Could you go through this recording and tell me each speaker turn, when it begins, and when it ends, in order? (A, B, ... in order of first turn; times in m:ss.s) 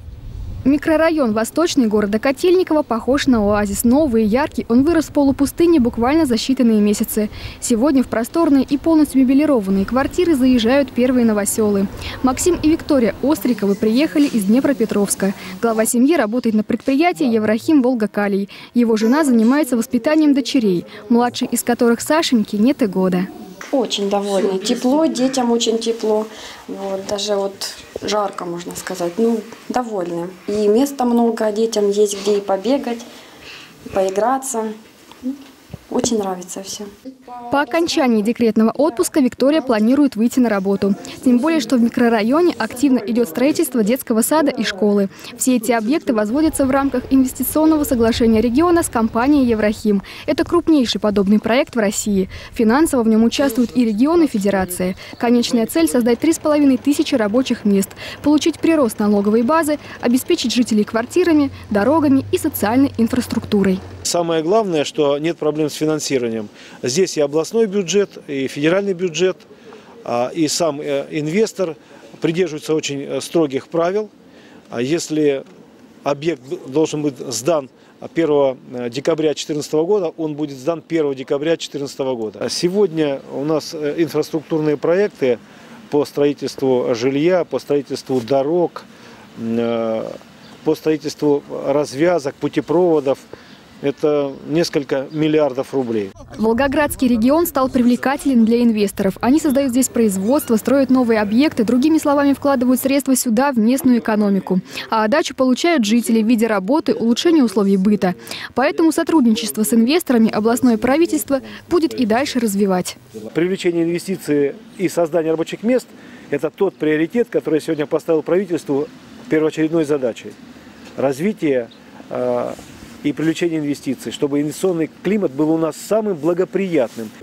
0:00.6-0:23.3 A
0:23.7-0:33.0 B
0:33.9-0:34.8 B
0:35.9-0:36.9 B
0:37.5-1:03.8 A
1:04.0-1:09.5 C
1:10.0-1:14.1 C
1:14.7-1:15.4 C
1:16.0-1:33.2 C
1:33.8-1:36.2 C
1:36.3-1:53.0 A
1:53.3-2:00.4 C
2:01.0-2:07.1 C